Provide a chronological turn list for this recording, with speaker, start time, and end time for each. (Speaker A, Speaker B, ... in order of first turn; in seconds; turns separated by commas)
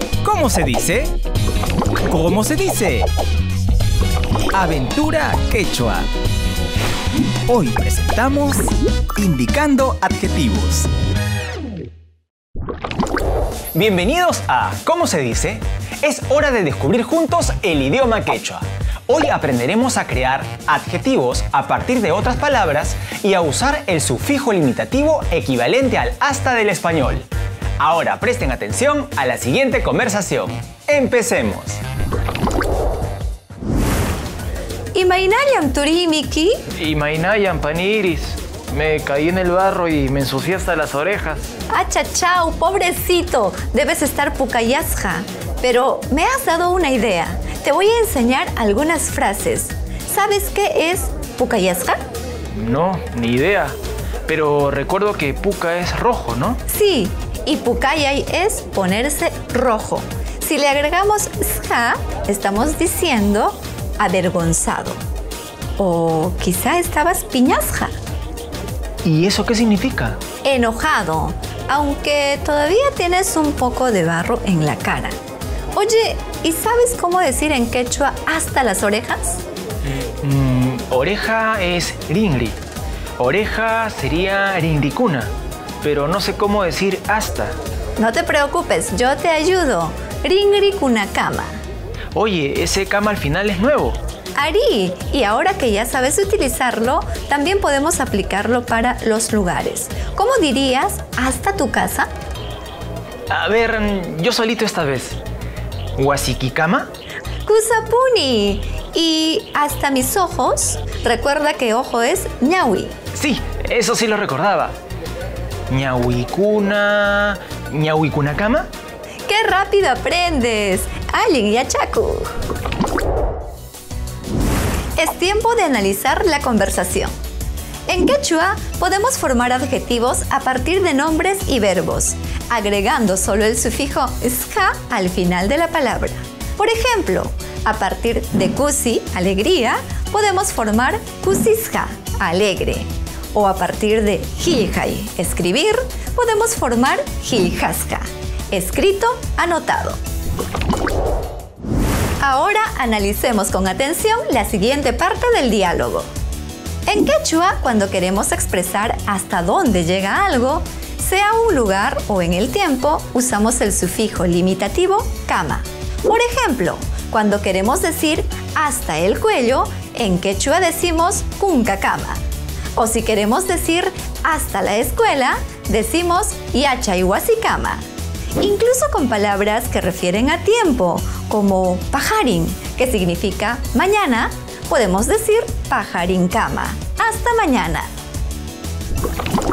Speaker A: 0.2-1.1, Speaker A: 2.1-3.1, Speaker A: 4.5-6.1, Speaker A: 7.5-10.9, Speaker A: 13.7-27.3, Speaker A: 27.8-31.8, Speaker B: 34.9-36.6, Speaker C: 36.8-41.5, Speaker B: 41.7-52.0, Speaker C: 52.6-53.7, Speaker A: 52.7-53.7, Speaker C: 54.3-56.6, Speaker A: 56.0-56.4, Speaker B: 56.7-65.0, Speaker B: 65.8-67.9, Speaker A: 69.0-70.2, Speaker B: 70.4-75.2, Speaker B: 75.8-79.4, Speaker C: 80.2-82.5, Speaker A: 81.0-81.3, Speaker C: 83.2-85.3, Speaker C: 85.8-87.5, Speaker B: 88.0-91.6, Speaker C: 92.2-94.0, Speaker B: 94.4-102.1, Speaker C: 103.3-105.2, Speaker C: 106.0-106.8, Speaker B: 107.5-113.0, Speaker A: 113.2-114.7, Speaker C: 113.5-114.7, Speaker C: 115.7-118.4, Speaker A: 118.2-118.6, Speaker B: 119.3-122.3, Speaker B: 125.0-127.1, Speaker B: 127.9-150.0, Speaker B: 152.2-156.1, Speaker B: 156.9-172.2, Speaker B: 172.8-177.8, Speaker B: 178.4-187.9